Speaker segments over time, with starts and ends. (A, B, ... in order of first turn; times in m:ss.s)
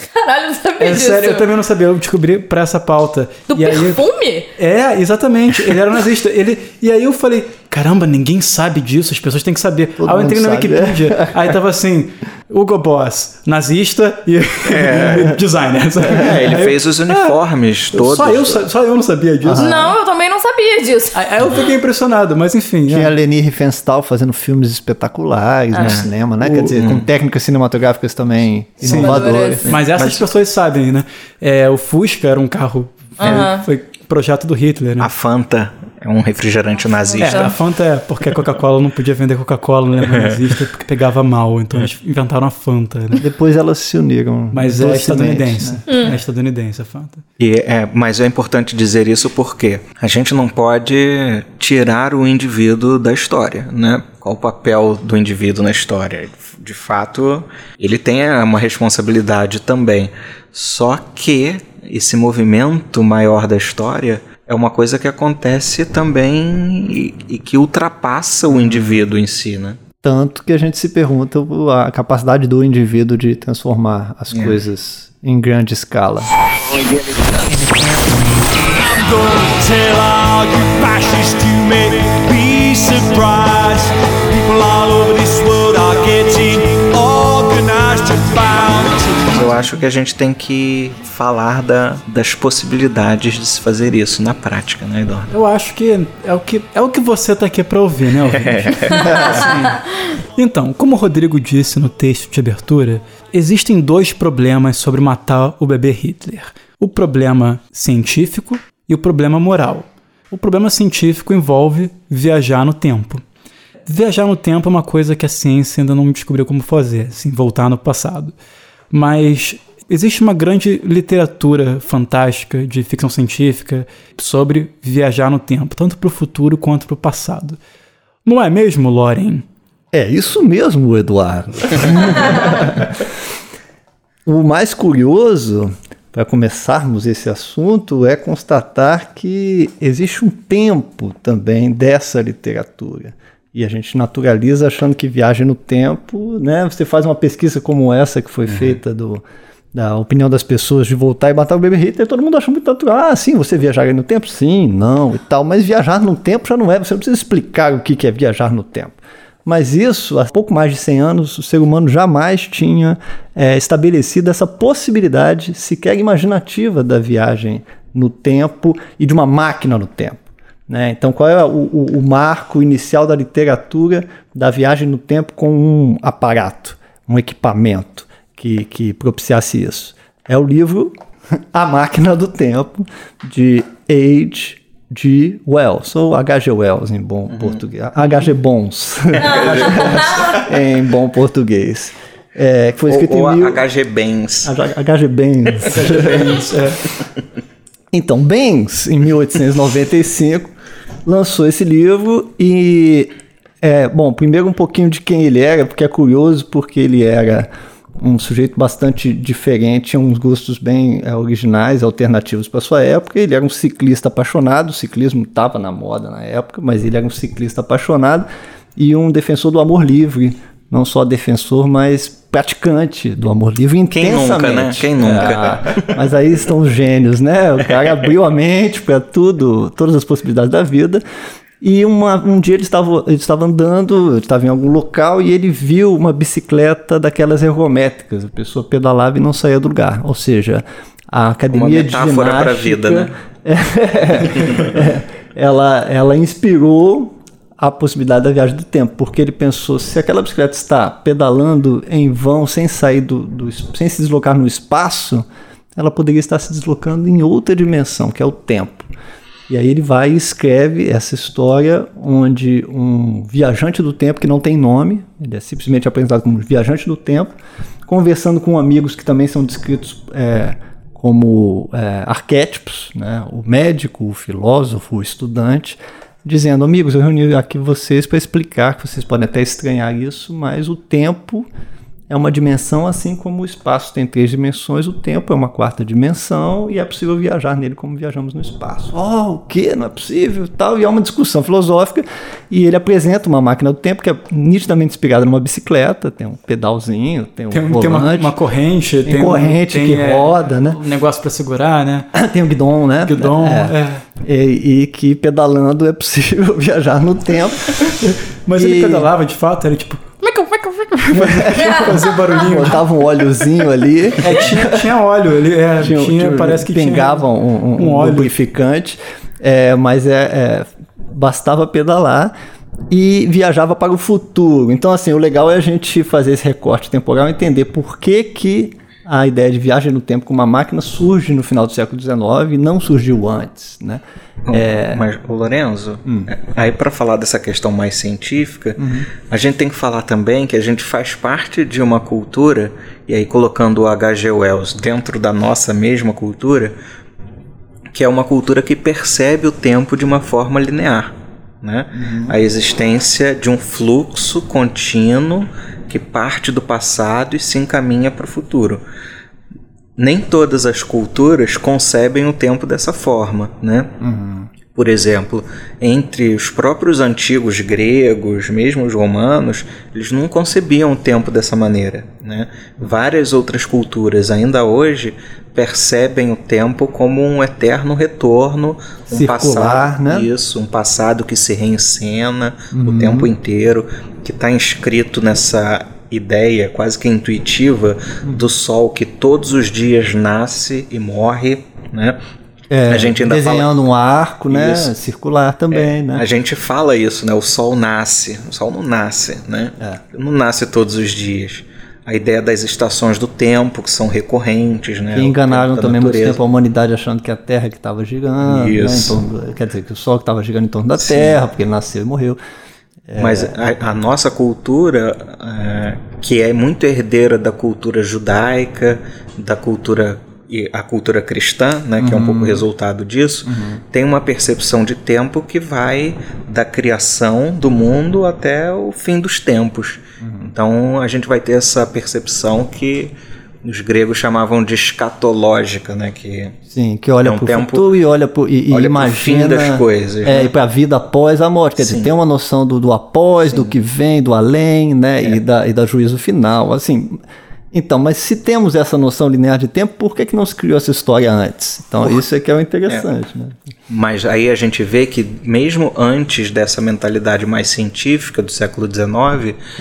0:00.1-0:01.4 A
0:00.8-0:04.0 B
0:03.5-0:04.5 A
0:04.6-0:17.3 B
0:10.0-0:11.6 C
0:14.7-0:15.4 D
0:16.1-0:18.6 D
0:17.9-0:19.7 B
0:19.4-0:19.9 C
0:19.6-0:21.2 A
0:21.1-0:23.1 B
0:22.9-0:30.2 C
0:25.7-0:26.0 A
0:26.4-0:26.8 B
0:26.7-0:27.1 D
0:28.8-0:29.7 A
0:28.8-0:35.1 B
0:33.2-0:33.6 A
0:33.2-0:33.5 D
0:35.0-0:37.6 D
0:37.1-0:37.5 A
0:37.2-0:43.2 B
0:40.0-0:40.5 D
0:43.2-0:45.8 C
0:44.5-0:47.2 B
0:45.9-0:46.1 A
0:47.4-1:09.8 D
1:08.5-1:09.0 C
1:10.0-1:16.3 C
1:14.3-1:14.6 D
1:16.5-1:29.5 E
1:29.3-1:35.3 D
1:35.3-1:39.8 B
1:38.3-1:39.4 D
1:40.4-1:53.2 B
1:53.9-1:58.3 B
1:58.9-2:07.6 B
2:08.3-2:09.4 B
2:09.9-2:13.0 C
2:14.3-2:29.2 C
2:28.5-2:28.8 D
2:29.7-3:13.6 C
3:07.3-3:07.6 D
3:09.2-3:10.4 D
3:12.9-3:14.5 D
3:14.4-3:16.4 C
3:15.7-3:16.8 B
3:17.9-3:20.5 C
3:21.1-3:23.1 C
3:23.6-3:51.0 C
3:43.9-3:45.9 D
3:51.6-4:18.9 C
4:01.5-4:03.1 D
4:19.5-4:27.3 C
4:27.9-4:41.5 C
4:42.1-4:58.4 C
4:57.5-5:02.1 B
4:59.0-5:00.8 C
5:02.1-5:07.9 C
5:03.0-5:04.0 B
5:08.0-5:10.1 B
5:08.6-5:09.1 C
5:10.2-5:12.0 A
5:11.0-5:12.8 B
5:11.1-5:14.8 C
5:14.2-5:17.2 B
5:15.8-5:22.3 C
5:17.8-5:18.4 B
5:22.9-5:35.1 C
5:34.5-5:46.7 D
5:38.8-5:39.1 C
5:47.9-5:58.8 D
5:52.0-5:52.3 C
6:00.0-6:03.9 D
6:04.0-6:04.5 C
6:04.7-6:32.2 D
6:19.1-6:20.3 C
6:22.7-6:23.3 C
6:32.7-6:36.2 C
6:32.9-6:33.8 D
6:34.5-6:34.9 D
6:35.7-6:46.4 D
6:45.1-6:52.4 C
6:48.4-6:49.2 D
6:51.0-6:51.4 D
6:53.1-6:53.5 C
6:53.2-7:13.1 D
7:02.0-7:02.6 C
7:03.5-7:03.8 C
7:10.2-7:10.5 C
7:13.6-7:16.6 D
7:16.7-7:27.2 C
7:17.2-7:17.9 D
7:18.7-7:20.5 D
7:21.8-7:22.1 D
7:27.7-7:33.6 C
7:33.9-7:39.6 D